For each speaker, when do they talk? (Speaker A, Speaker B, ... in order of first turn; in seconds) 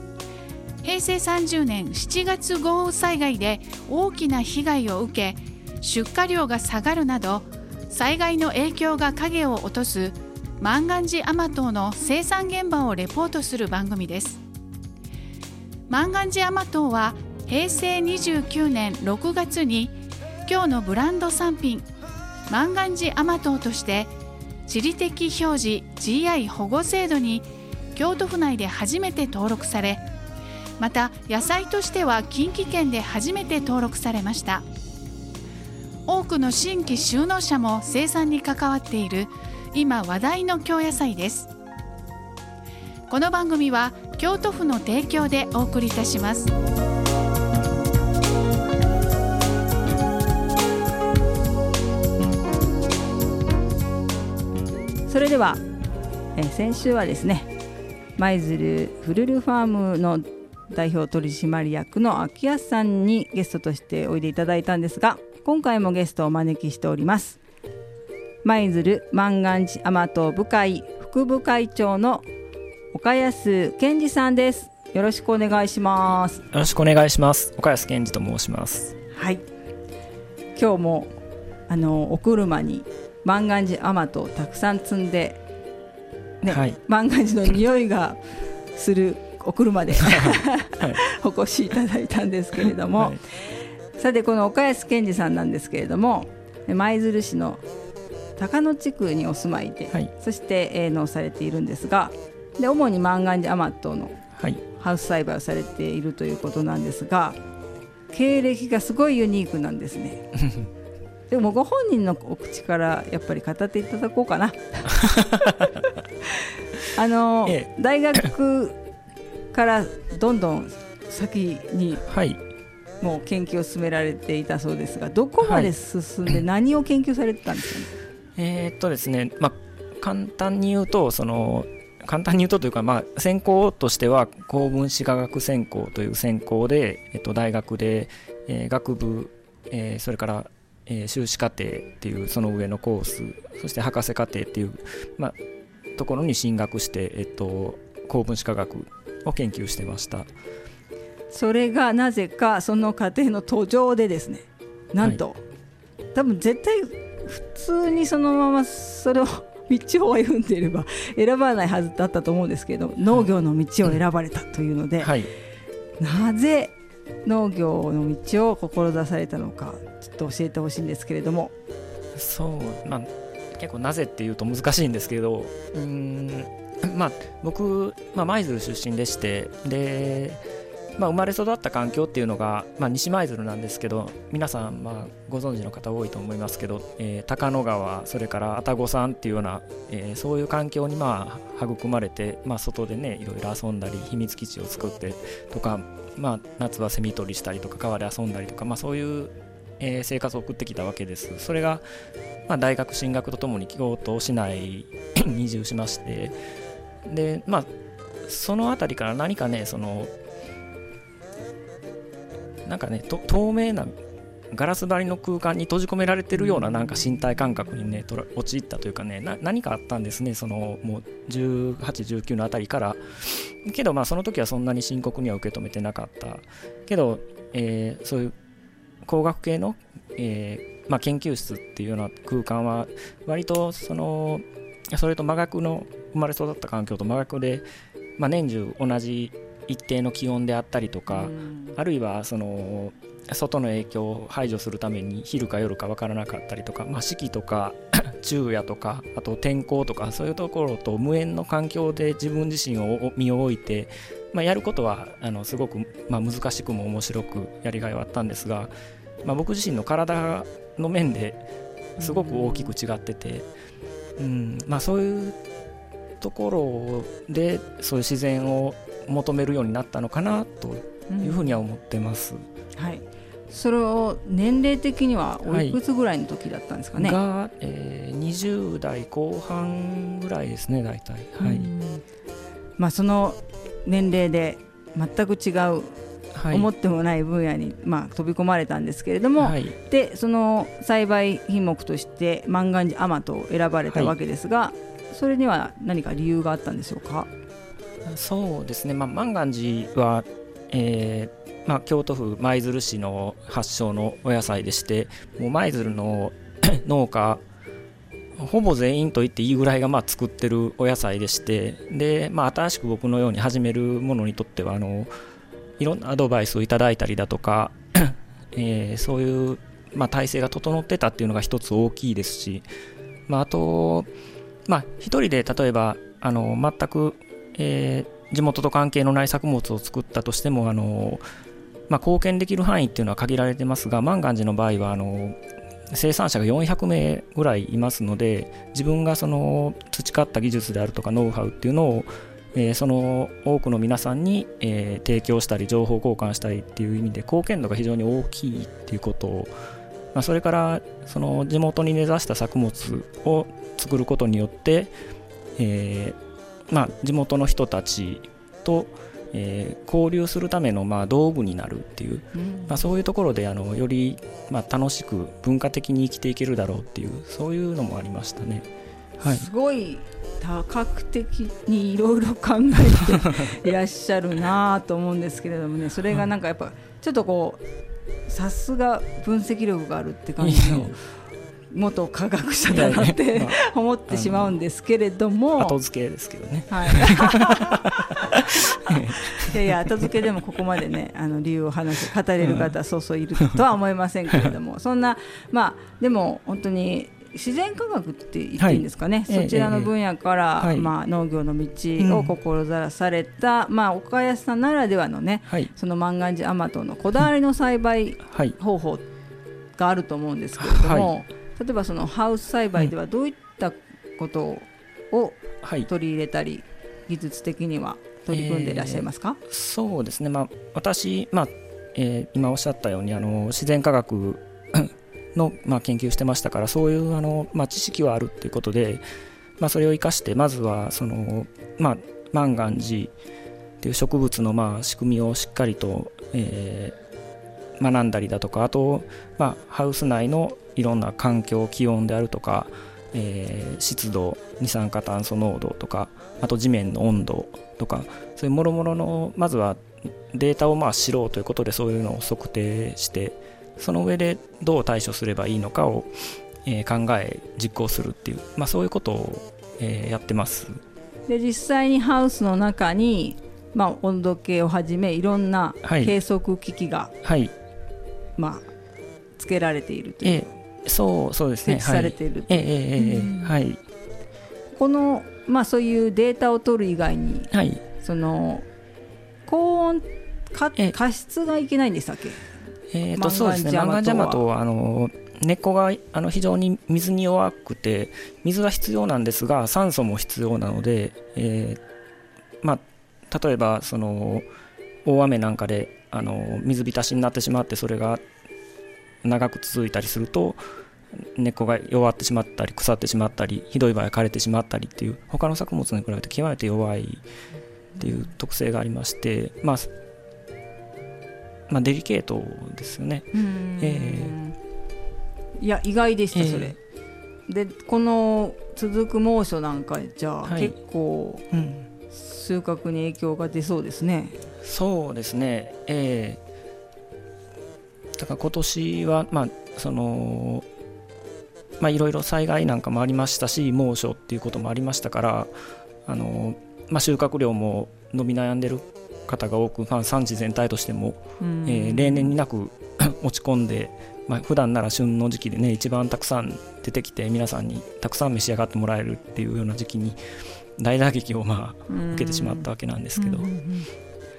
Speaker A: 0.8-14.4, 15.9-19.9, 20.4-21.9, 22.5-24.1, 24.7-30.0, 30.8-34.6, 36.0-41.5, 43.1-46.5
Speaker B: 55.1-55.6, 56.4-57.5, 58.2-67.4, 68.4-72.2, 72.9-76.4, 79.1-79.4, 80.5-81.1, 81.7-85.4, 86.4-88.2, 88.7-93.2, 94.0-97.6, 98.4-107.4, 108.1-110.3, 111.3-115.4, 116.9-118.8, 119.5-122.0, 123.0-127.9, 151.3-155.4, 156.1-165.1, 166.0-166.7, 167.2-171.5, 241.1-241.8, 271.1-271.5, 272.8-277.2, 281.4-282.0, 282.8-297.3, 362.3-362.8, 369.2-377.6, 378.3-381.0, 381.7-385.8, 386.7-388.1, 388.8-409.1, 409.8-419.4, 461.3-467.1, 468.4-468.7, 469.4-470.5, 471.6-473.5, 474.7-478.6, 479.5-482.4, 483.1-484.4, 513.3-514.5, 515.6-516.8, 517.5-521.4, 522.1-524.4, 541.4-542.3, 551.9-553.9
Speaker C: 76.5-78.9, 86.5-86.8, 90.0-91.0, 114.9-115.8, 122.1-122.4, 125.4-125.7, 128.3-145.4, 145.9-150.3, 165.0-165.3, 172.1-180.4, 181.0-201.8, 202.5-206.3, 207.0-207.7, 208.2-210.1, 212.6-213.9, 214.5-228.3, 229.0-237.6, 238.2-258.7, 259.2-261.4, 262.0-263.5, 264.2-265.4, 266.2-272.4, 275.5-275.8, 276.9-281.7, 286.3-286.7, 289.4-289.7, 298.1-307.4, 308.4-315.1, 315.8-322.6, 323.3-324.1, 324.7-331.2, 331.9-349.5, 350.1-354.9, 355.6-356.2, 356.7-368.7, 369.2-369.4, 380.4-380.9, 382.7-383.6, 384.1-384.6, 385.6-390.2, 392.4-392.7, 398.6-399.9, 400.6-400.9, 402.0-402.3, 408.3-408.6, 410.6-411.1, 415.6-415.9, 418.3-429.0, 429.6-433.1, 433.8-437.0, 437.8-460.8, 465.8-466.1, 467.2-467.5, 470.2-473.8, 477.5-477.8, 482.9-491.8, 492.6-494.4, 495.0-498.2, 499.2-500.6, 501.1-507.2, 508.0-509.9, 511.7-514.4, 516.3-516.7, 520.4-520.8, 521.5-521.9, 524.6-526.4, 528.1-530.6, 531.8-535.5, 536.0-550.2, 550.8-553.5